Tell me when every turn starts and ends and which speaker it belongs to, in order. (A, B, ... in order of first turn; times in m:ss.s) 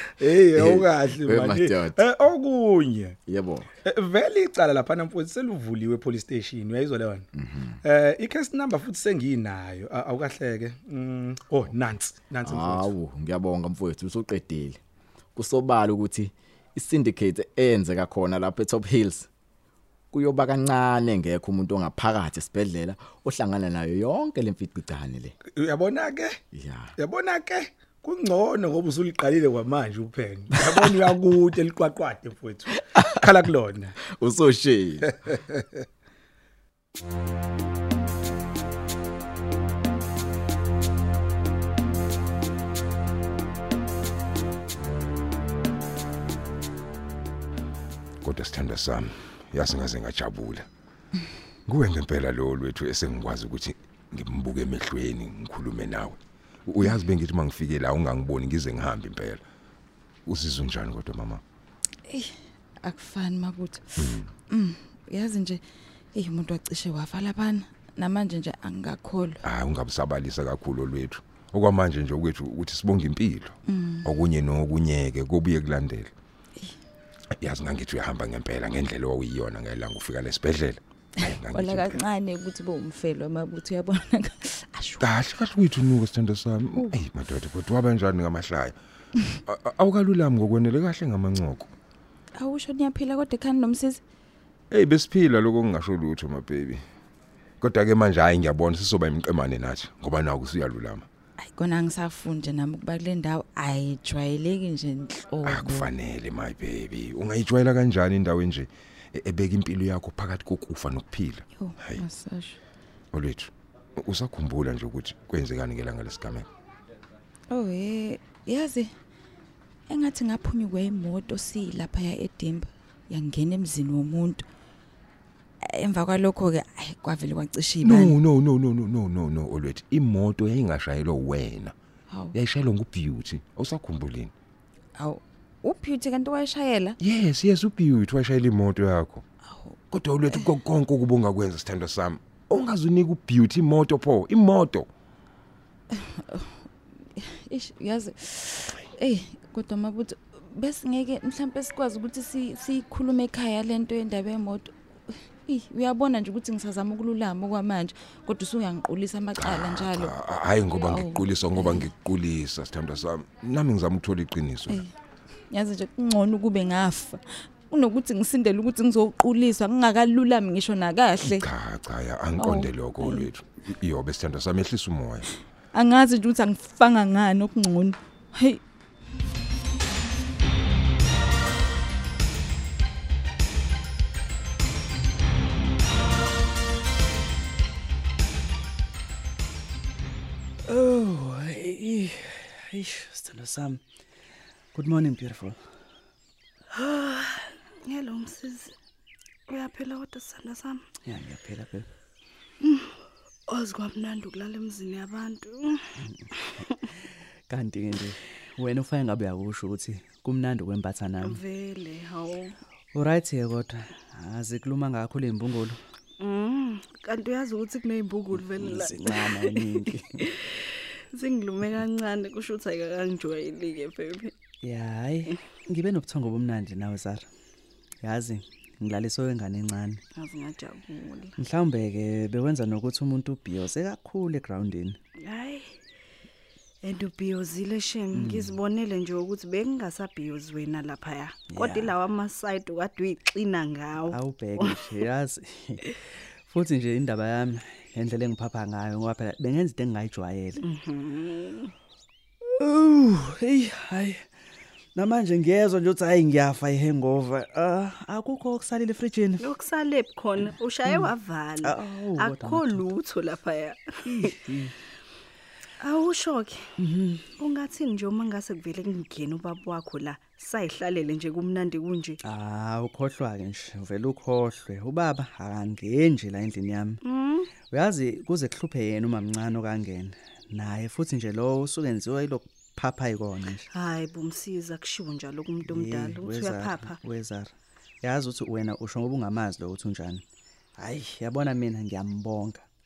0:00.2-0:03.2 A
0:00.6-0:02.0 B
0:03.3-0:03.7 B
0:03.8-0:07.3 A
0:07.4-0:07.8 B
0:07.8-0:12.9 A
0:12.4-0:14.8 B
0:15.4-0:19.3 B
0:20.1-0:25.4 B
0:25.5-0:26.4 A
0:26.5-0:26.9 B
0:27.0-0:33.9 A
0:34.1-0:35.1 B
0:48.2-0:50.7 C
0:51.7-0:59.4 C
1:00.3-1:01.4 C
1:02.8-1:05.6 D
1:04.0-1:04.3 C
1:06.1-1:09.4 D
1:09.4-1:16.1 C
1:13.7-1:14.1 D
1:17.4-1:22.0 C
1:21.3-1:25.1 D
1:25.0-1:28.8 C
1:29.5-1:31.7 C
1:32.4-1:34.0 D
1:34.7-1:36.8 C
1:37.6-1:41.1 C
1:41.4-1:45.9 D
1:45.4-1:52.0 C
1:51.6-1:52.6 D
1:53.1-1:56.5 C
1:57.5-1:58.9 D
1:59.9-2:04.4 D
2:05.7-2:08.2 D
2:07.8-2:11.7 C
2:12.3-2:14.3 C
2:15.0-2:17.0 D
2:17.0-2:19.2 C
2:19.5-2:19.8 D
2:19.9-2:24.9 C
2:27.2-2:34.7 D
2:35.5-2:40.1 D
2:39.4-2:44.8 C
2:40.8-2:41.9 D
2:45.5-2:51.4 D
2:51.2-2:55.3 C
2:52.4-2:53.3 D
2:55.7-2:58.6 D
3:10.7-3:13.8 E
3:14.7-3:15.6 E
3:16.7-3:18.7 F
3:19.5-3:20.9 F
3:21.0-3:21.9 E
3:22.6-3:25.8 F
3:27.5-3:31.3 E
3:31.2-3:32.6 F
3:32.9-3:35.8 E
3:36.2-3:40.6 F
3:38.6-3:40.0 E
3:41.1-3:44.4 F
3:44.6-3:47.3 E
3:48.0-3:50.0 E
3:50.2-3:51.4 F
3:51.4-3:55.0 E
3:55.2-3:55.8 F
3:56.8-4:04.9 F
3:58.2-3:58.5 E
4:01.6-4:01.9 E
4:04.1-4:05.8 E
4:06.5-4:10.6 E
4:10.6-4:11.7 F
4:12.6-4:14.2 E
4:15.0-4:19.4 E
4:19.4-4:24.3 F
4:21.6-4:22.8 E
4:24.1-4:24.7 E
4:25.8-4:26.7 F
4:26.8-4:27.2 E
4:27.3-4:32.2 F
4:32.3-4:37.0 E
4:37.0-4:37.5 F
4:37.7-4:43.6 E
4:43.7-4:47.0 F
4:45.7-4:47.5 E
4:48.0-4:50.2 E
4:50.8-4:52.6 E